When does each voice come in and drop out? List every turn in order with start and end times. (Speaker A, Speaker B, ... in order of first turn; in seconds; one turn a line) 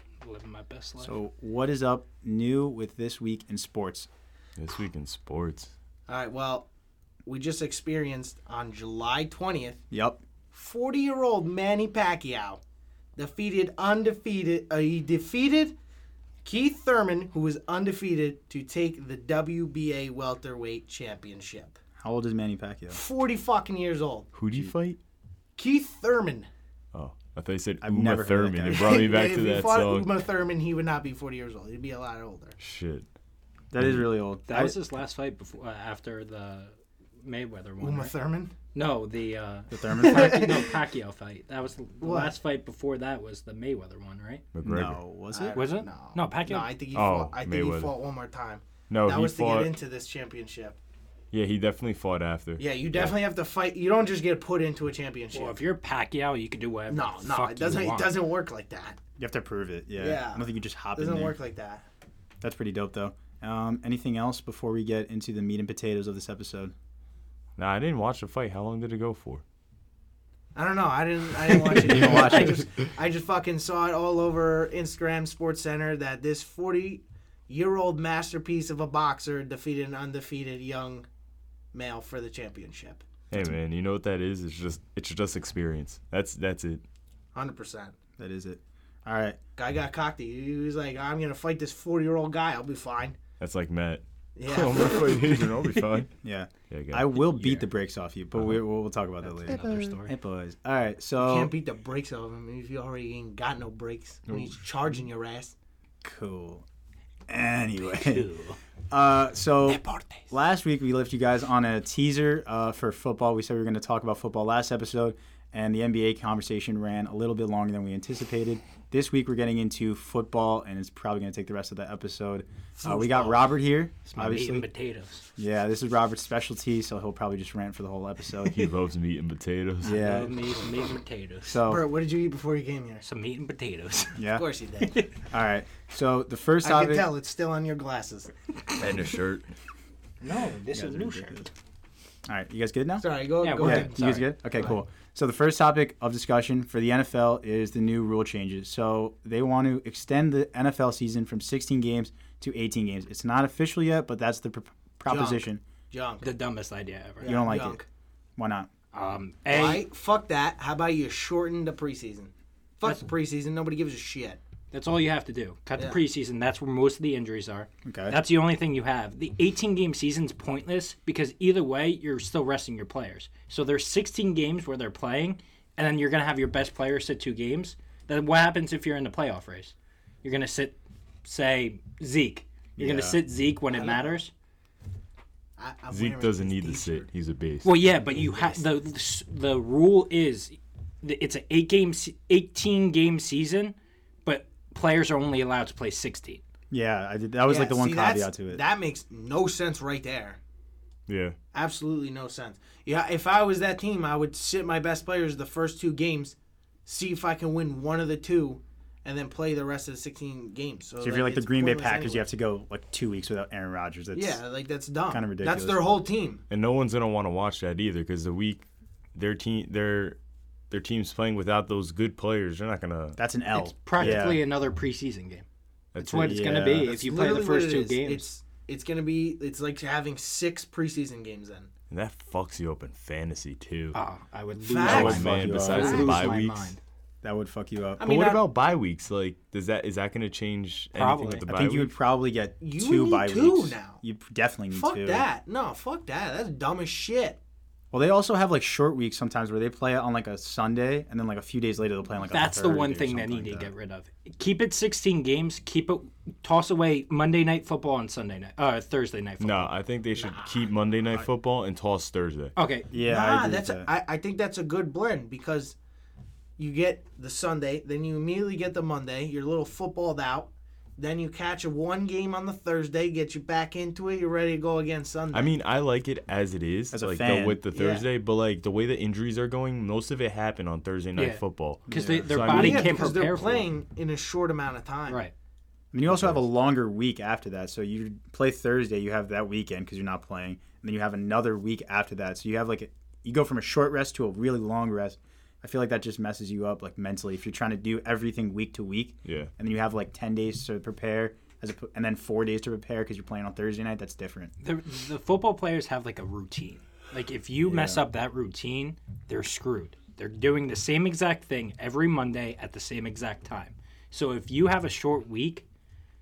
Speaker A: 0.2-1.1
Speaker B: 1.0-4.1
Speaker C: 4.6-5.7
Speaker D: 6.1-6.7
Speaker D: 7.2-9.8
Speaker B: 9.9-10.2
Speaker D: 10.5-12.6
Speaker D: 13.2-15.7
Speaker D: 16.4-21.8
Speaker B: 22.0-23.0
Speaker D: 22.9-24.3
Speaker C: 24.3-25.0
Speaker D: 25.6-26.5
Speaker C: 26.9-30.1
Speaker B: 27.8-29.0
Speaker D: 28.6-32.5
Speaker C: 32.6-33.0
Speaker B: 33.7-34.8
Speaker C: 33.8-34.0
Speaker A: 34.5-38.1
Speaker D: 37.8-38.5
Speaker A: 38.7-44.4
Speaker B: 39.7-40.5
Speaker D: 40.0-40.8
Speaker D: 42.0-42.3
Speaker C: 44.5-45.0
Speaker B: 44.6-45.6
Speaker D: 45.3-50.8
Speaker A: 45.5-46.7
Speaker C: 46.9-47.9
Speaker C: 48.9-49.7
Speaker C: 51.3-53.2
Speaker D: 52.6-55.6
Speaker A: 55.3-58.1
Speaker D: 56.9-59.0
Speaker B: 59.2-61.4
Speaker D: 60.0-61.8
Speaker B: 62.4-66.7
Speaker C: 67.6-69.4
Speaker D: 70.5-81.0
Speaker B: 71.8-72.7
Speaker C: 72.0-72.4
Speaker D: 81.7-83.0
Speaker C: 83.3-86.8
Speaker D: 87.3-87.9
Speaker B: 88.2-89.4
Speaker D: 89.5-93.2
Speaker C: 93.4-96.1
Speaker D: 94.3-95.3
Speaker B: 96.2-101.5
Speaker C: 96.7-97.3
Speaker A: 97.3-97.6
Speaker A: 99.2-100.1
Speaker D: 101.2-105.5
Speaker B: 106.0-106.6
Speaker B: 107.3-108.3
Speaker A: 107.8-108.6
Speaker B: 108.9-124.7
Speaker D: 109.7-110.3
Speaker D: 122.8-123.5
Speaker A: 124.1-125.2
Speaker B: 125.4-128.7
Speaker C: 128.4-130.0
Speaker B: 129.8-130.4
Speaker A: 129.8-131.6
Speaker B: 131.4-131.8
Speaker D: 131.6-133.1
Speaker A: 133.0-134.2
Speaker B: 134.2-134.4
Speaker D: 134.3-135.0
Speaker A: 134.8-135.1
Speaker B: 135.2-137.1
Speaker D: 136.6-138.3
Speaker C: 138.8-139.5
Speaker A: 140.2-141.5
Speaker B: 140.7-141.5
Speaker B: 142.2-155.6
Speaker D: 143.0-144.7
Speaker A: 143.4-144.2
Speaker D: 155.1-156.3
Speaker A: 156.2-157.3
Speaker D: 157.2-157.8
Speaker B: 157.2-157.8
Speaker B: 158.4-158.7
Speaker A: 158.9-159.8
Speaker D: 159.5-164.4
Speaker A: 164.7-184.3
Speaker D: 165.8-166.0
Speaker B: 167.8-168.2
Speaker B: 182.8-183.2
Speaker D: 183.7-184.1
Speaker D: 185.6-187.1
Speaker C: 185.9-187.7
Speaker A: 187.6-196.4
Speaker D: 188.0-188.6
Speaker B: 196.7-198.6
Speaker D: 197.4-200.4
Speaker C: 201.1-201.3
Speaker D: 201.5-206.3
Speaker D: 206.8-212.2
Speaker B: 211.0-214.4
Speaker D: 214.1-216.4
Speaker B: 215.1-215.8
Speaker C: 216.5-220.2
Speaker C: 220.7-223.2
Speaker B: 223.2-224.4
Speaker A: 223.5-225.4
Speaker C: 224.0-224.3
Speaker C: 225.9-226.4
Speaker A: 226.0-228.2
Speaker B: 226.1-226.9
Speaker D: 226.8-231.7
Speaker C: 231.9-234.0
Speaker A: 233.9-236.8
Speaker D: 234.6-236.2
Speaker B: 234.8-236.3
Speaker C: 234.8-236.7
Speaker B: 237.2-238.0
Speaker D: 238.0-238.4
Speaker C: 238.0-241.9
Speaker A: 240.9-241.4
Speaker B: 241.5-245.3
Speaker D: 242.6-244.0
Speaker D: 244.7-247.4
Speaker B: 247.9-253.7
Speaker A: 252.3-259.7
Speaker C: 259.4-262.5
Speaker D: 260.1-260.7
Speaker A: 262.6-262.9
Speaker B: 262.9-263.9
Speaker D: 263.0-265.8
Speaker D: 266.6-275.5
Speaker C: 275.3-282.9
Speaker B: 276.9-277.6
Speaker D: 277.7-278.0
Speaker A: 281.1-283.7
Speaker B: 281.9-282.8
Speaker D: 282.5-285.2
Speaker B: 285.9-304.5
Speaker C: 286.1-286.4
Speaker C: 299.2-299.5
Speaker A: 304.6-315.6
Speaker B: 307.6-308.0